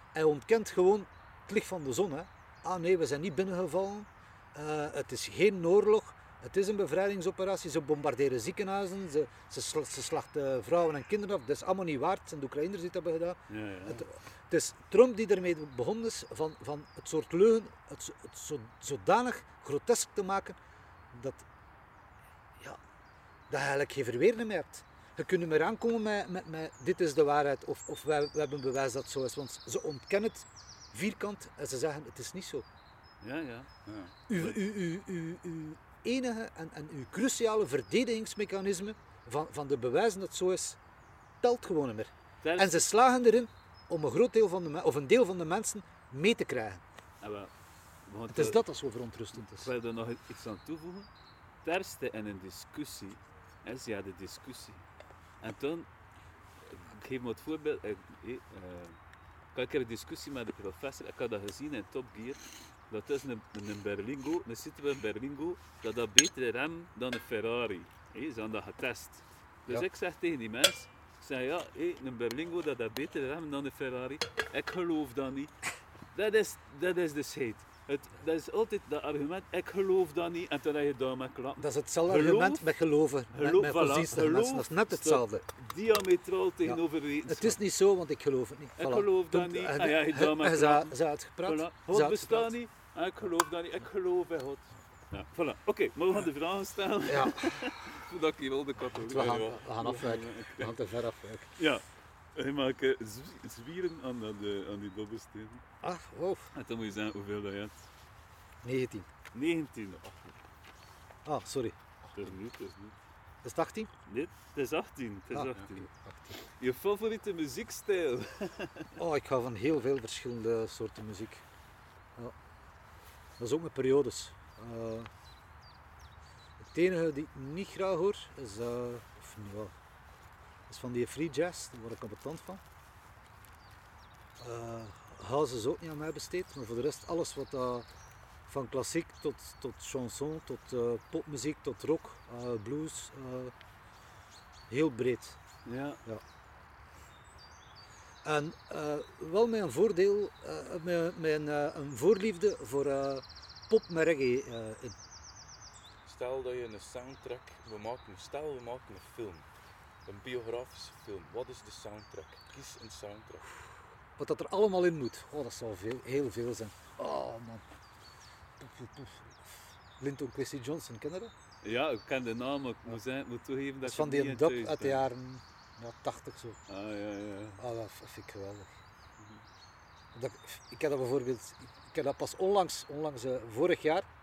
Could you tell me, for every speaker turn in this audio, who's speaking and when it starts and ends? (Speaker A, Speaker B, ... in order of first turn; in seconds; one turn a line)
Speaker A: 0.1-20.6
Speaker B: 13.5-14.1
Speaker A: 21.1-21.4
Speaker A: 23.5-32.6
Speaker B: 33.2-33.7
Speaker C: 33.9-34.1
Speaker A: 34.3-40.8
Speaker A: 41.4-46.8
Speaker B: 42.4-42.8
Speaker B: 47.2-47.5
Speaker B: 48.1-48.7
Speaker A: 48.3-49.7
Speaker B: 49.4-51.1
Speaker B: 51.6-54.9
Speaker B: 55.4-55.9
Speaker B: 56.6-59.0
Speaker B: 59.5-75.5
Speaker B: 76.1-82.7
Speaker A: 81.6-85.5
Speaker B: 83.3-87.6
Speaker A: 86.6-92.5
Speaker B: 88.8-100.7
Speaker A: 97.1-97.6
Speaker A: 99.0-101.5
Speaker C: 99.1-100.5
Speaker B: 101.6-105.7
Speaker A: 105.8-106.5
Speaker B: 106.5-107.9
Speaker A: 108.6-109.1
Speaker B: 109.3-110.0
Speaker A: 111.2-111.8
Speaker B: 112.2-113.0
Speaker A: 113.4-113.9
Speaker B: 114.1-115.9
Speaker A: 115.3-116.4
Speaker B: 116.5-118.9
Speaker A: 119.0-121.4
Speaker A: 123.4-125.1
Speaker A: 126.6-129.7
Speaker A: 130.7-132.6
Speaker A: 134.4-137.9
Speaker A: 138.5-143.5
Speaker A: 144.7-145.4
Speaker B: 145.7-146.0
Speaker A: 148.2-155.0
Speaker C: 156.1-159.5
Speaker C: 160.1-163.5
Speaker A: 164.2-167.7
Speaker A: 168.6-171.3
Speaker B: 171.6-175.1
Speaker A: 173.8-176.6
Speaker B: 176.7-177.6
Speaker A: 177.6-178.7
Speaker A: 180.1-184.1